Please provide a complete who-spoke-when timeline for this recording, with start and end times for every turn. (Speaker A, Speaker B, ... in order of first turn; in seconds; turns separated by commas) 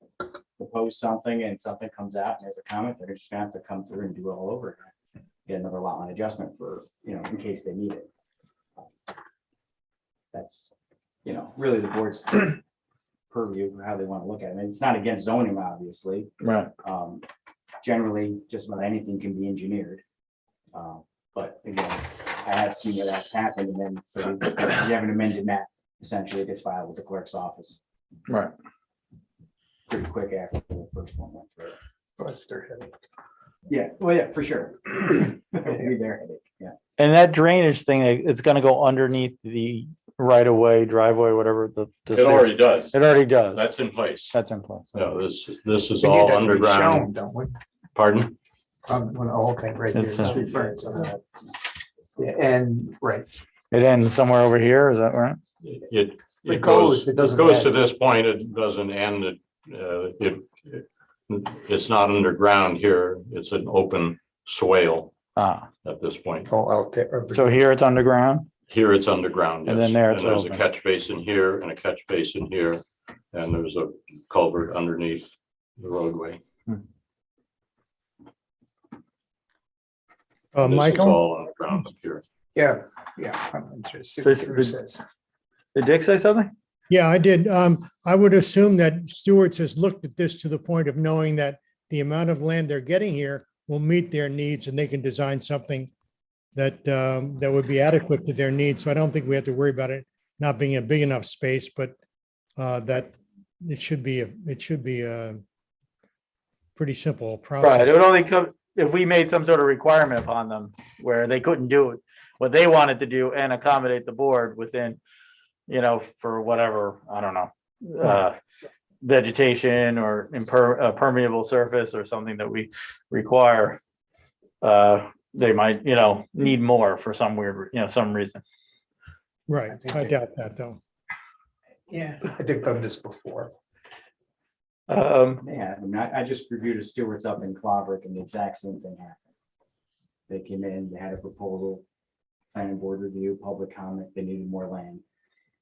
Speaker A: 0.6-4.9, Speaker A: 5.5-8.1, Speaker A: 10.3-10.7, Speaker A: 11.2-12.6, Speaker A: 13.3-16.3, Speaker B: 16.4-16.7, Speaker A: 16.8-17.2, Speaker A: 17.8-20.0, Speaker A: 20.7-27.8, Speaker A: 29.9-31.8, Speaker C: 32.2-32.9, Speaker A: 33.7-36.7, Speaker B: 37.0-43.6, Speaker D: 42.1-43.0, Speaker D: 43.5-44.3, Speaker B: 44.3-45.1, Speaker D: 44.9-47.1, Speaker C: 46.0-47.5, Speaker D: 47.9-48.3, Speaker C: 48.9-51.1, Speaker B: 49.9-50.8, Speaker C: 52.1-53.3, Speaker B: 53.7-55.4, Speaker D: 55.6-65.1, Speaker C: 56.5-57.7, Speaker B: 65.3-65.7, Speaker D: 65.8-66.5, Speaker C: 66.5-67.5, Speaker B: 67.3-68.5, Speaker D: 68.7-76.4, Speaker B: 69.6-70.6, Speaker E: 80.5-81.2, Speaker D: 80.6-82.2, Speaker C: 82.5-85.0, Speaker B: 84.2-84.8, Speaker B: 85.7-86.5, Speaker E: 86.9-95.9, Speaker E: 96.5-101.9, Speaker E: 102.6-105.4, Speaker E: 106.8-108.0, Speaker B: 107.6-115.0, Speaker B: 115.7-118.3, Speaker B: 119.0-123.8, Speaker B: 124.6-128.4, Speaker E: 129.5-130.8, Speaker C: 129.7-130.1, Speaker C: 131.9-133.5, Speaker B: 134.9-135.4, Speaker A: 135.4-139.2, Speaker A: 140.3-141.8, Speaker A: 142.5-145.0